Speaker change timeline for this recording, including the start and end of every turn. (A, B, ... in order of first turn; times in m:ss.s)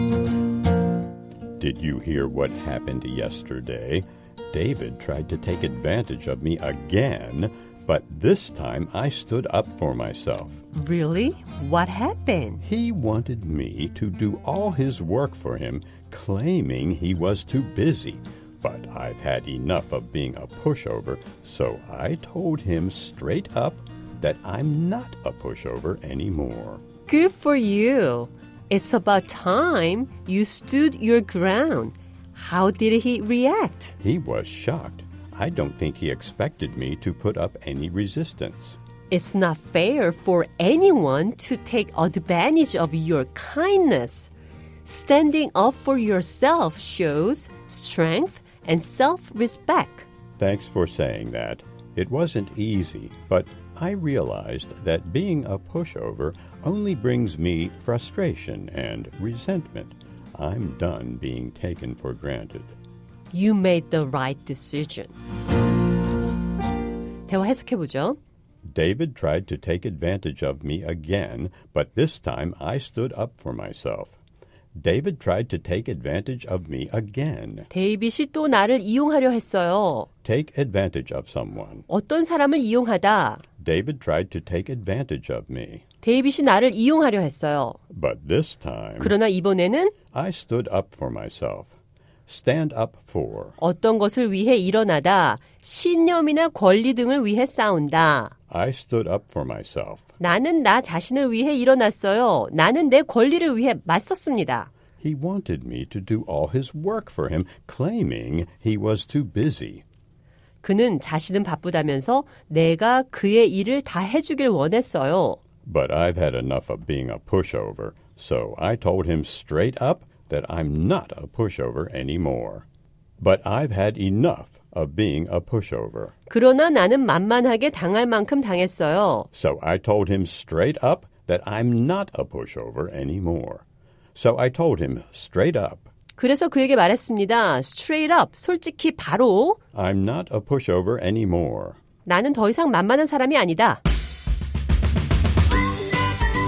0:01.6-0:10.6 A
0:10.7-0:12.6 B
0:12.6-0:26.8 A
0:27.1-0:33.9 B
0:34.0-0:38.8 A
0:39.1-0:44.3 B
0:44.8-0:50.1 B
0:50.4-1:02.8 A
1:03.3-1:05.1 B
1:07.3-1:08.2 B
1:08.6-1:14.2 A
1:14.8-1:17.7 A
1:17.7-1:20.1 B
1:20.2-1:21.9 A
1:21.9-1:23.4 B
1:23.6-1:25.8 A
1:26.0-1:27.8 B
1:27.9-1:29.1 A
1:29.0-1:29.9 B
1:30.1-1:31.7 A
1:32.3-1:33.6 A
1:33.6-1:38.3 B
1:38.5-1:40.1 A
1:40.2-1:44.7 B
1:45.0-1:49.8 A
1:50.6-1:55.4 B
1:55.6-2:02.7 A
2:03.2-2:06.1 A
2:06.3-2:09.3 B
2:09.3-2:13.6 A
2:14.2-2:15.9 A
2:16.2-2:19.6 B
2:19.7-2:21.8 A
2:22.0-2:23.8 B